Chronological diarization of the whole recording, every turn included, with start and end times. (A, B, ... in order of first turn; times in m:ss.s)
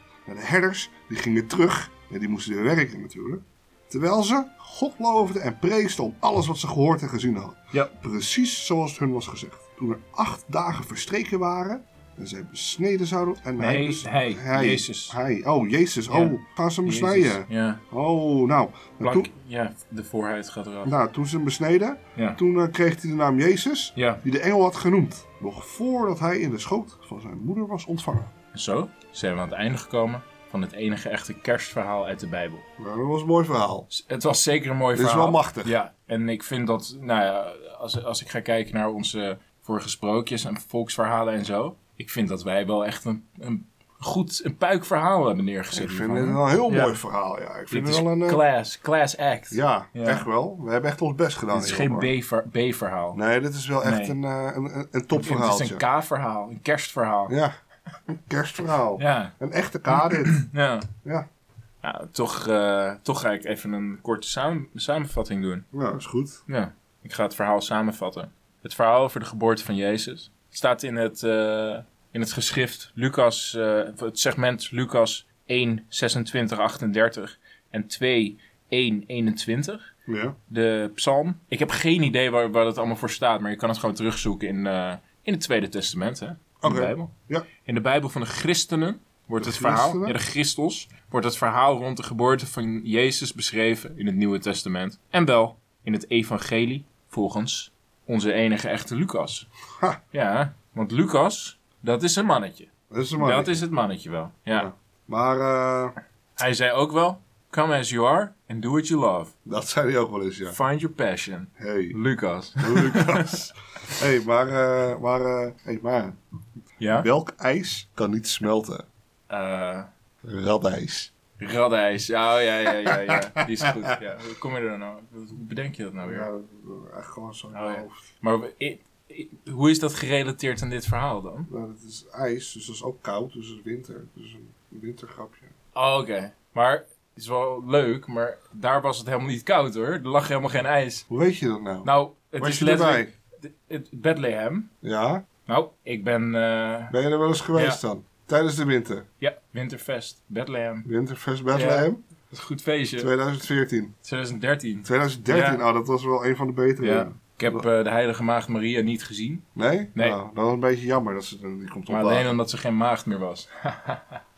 0:00.3-0:19.3 A
0:13.6-0:15.2 B
0:16.1-0:17.8 B
0:19.0-0:20.9 B
0:20.8-0:28.3 A
0:24.0-0:24.2 B
0:28.5-0:32.7 B
0:32.8-0:33.9 A
0:33.9-0:47.0 B
0:34.9-0:35.7 A
0:45.7-0:48.4 A
0:47.7-0:50.3 B
0:49.5-0:52.1 A
0:51.5-0:53.2 B
0:53.1-0:55.8 A
0:53.8-0:54.2 B
0:55.1-0:57.3 B
0:57.3-0:57.5 A
0:58.1-1:00.4 A
0:59.0-0:59.3 B
0:59.9-1:00.9 B
1:01.8-1:05.7 B
1:05.7-1:06.4 A
1:06.5-1:19.8 B
1:20.1-1:20.4 A
1:20.5-1:39.5 B
1:26.6-1:27.5 A
1:29.4-1:30.2 A
1:40.1-1:44.7 B
1:42.9-1:43.6 A
1:44.5-1:46.0 A
1:46.4-1:49.3 B
1:49.4-1:50.6 A
1:50.5-1:53.5 B
1:51.6-1:52.0 A
1:52.6-1:56.2 A
1:56.8-1:57.1 B
1:57.0-1:58.9 A
1:59.3-1:59.9 B
2:00.2-2:01.1 A
2:01.4-2:06.3 B
2:06.0-2:08.0 A
2:07.5-2:11.5 B
2:11.5-2:15.5 A
2:15.7-2:21.0 B
2:21.1-2:23.1 A
2:21.8-2:24.7 B
2:24.8-2:25.2 A
2:25.5-2:26.9 B
2:26.9-2:29.0 A
2:27.5-2:27.8 B
2:29.2-2:30.9 B
2:30.8-2:32.0 A
2:31.5-2:33.1 B
2:33.0-2:33.9 A
2:34.0-2:35.6 B
2:34.8-2:37.6 A
2:36.8-2:40.2 B
2:39.6-2:42.3 A
2:41.9-2:44.2 B